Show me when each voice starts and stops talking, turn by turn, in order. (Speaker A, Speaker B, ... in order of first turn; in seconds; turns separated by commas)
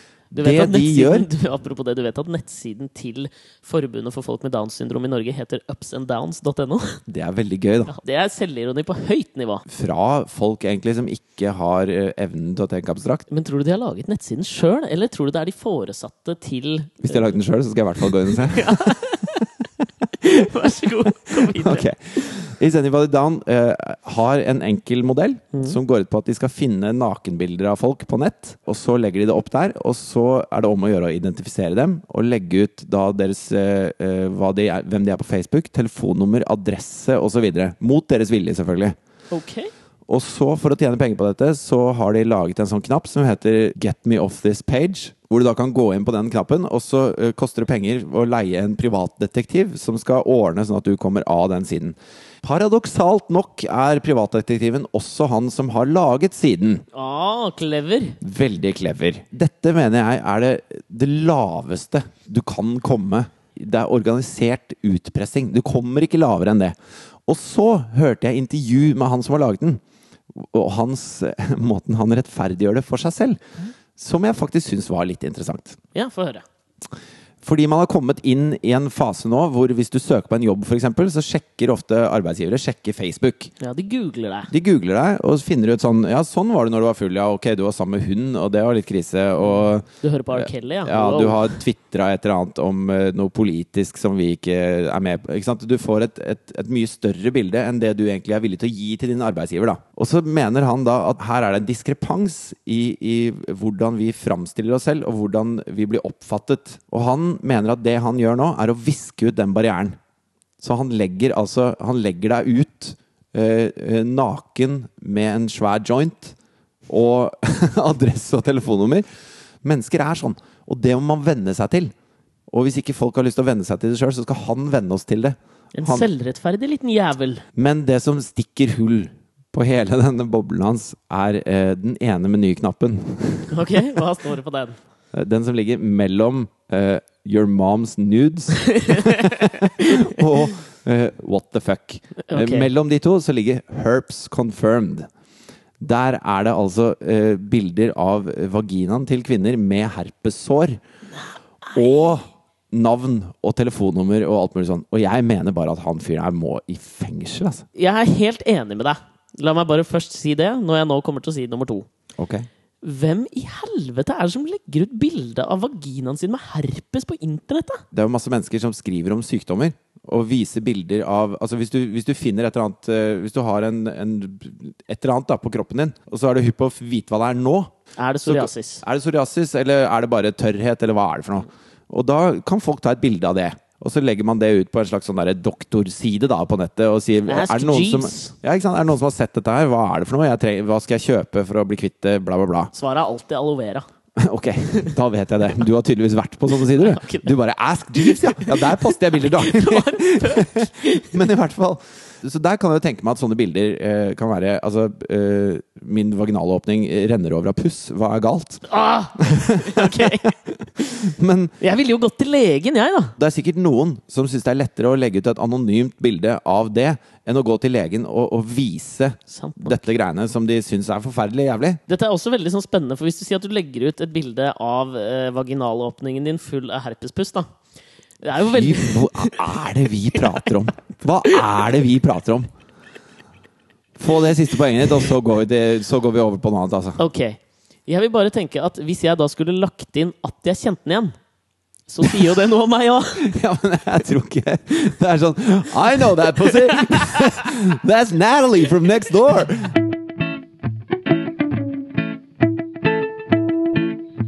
Speaker A: 0.3-1.3, Speaker B: 0.3-7.0, Speaker A: 7.1-7.9, Speaker B: 7.9-9.6, Speaker A: 9.7-13.3, Speaker B: 13.3-17.3, Speaker A: 17.0-19.4, Speaker B: 18.3-19.4, Speaker B: 20.2-21.9, Speaker A: 21.3-39.0, Speaker B: 39.3-39.7, Speaker A: 40.1-56.8, Speaker B: 56.9-58.2, Speaker A: 58.2-66.7, Speaker A: 67.3-69.8, Speaker A: 70.3-73.4, Speaker A: 74.0-75.8, Speaker B: 75.9-76.4, Speaker A: 77.4-83.5, Speaker B: 83.6-84.5, Speaker A: 84.5-110.0, Speaker B: 89.4-91.5, Speaker A: 110.6-116.3, Speaker A: 116.9-119.0, Speaker A: 119.6-121.9, Speaker A: 122.5-126.1, Speaker B: 125.7-127.4, Speaker A: 127.5-134.0, Speaker B: 133.5-134.8, Speaker A: 135.1-145.1, Speaker B: 138.7-140.0, Speaker B: 142.3-142.7, Speaker A: 145.8-150.8, Speaker B: 151.7-152.1, Speaker A: 151.7-157.6, Speaker B: 157.7-161.8, Speaker A: 162.2-162.5, Speaker B: 162.8-167.8, Speaker A: 167.9-177.7, Speaker B: 178.0-178.8, Speaker A: 178.2-192.7, Speaker B: 187.3-188.3, Speaker B: 192.7-193.8, Speaker A: 194.2-211.5, Speaker B: 196.6-197.3, Speaker B: 198.0-201.1, Speaker B: 208.7-210.3, Speaker B: 211.6-213.2, Speaker A: 213.2-221.8, Speaker B: 219.3-219.8, Speaker B: 221.9-227.5, Speaker B: 228.2-229.6, Speaker A: 228.4-232.5, Speaker A: 233.9-237.0, Speaker B: 237.0-241.1, Speaker B: 241.9-243.3, Speaker A: 243.2-249.8, Speaker B: 246.7-247.2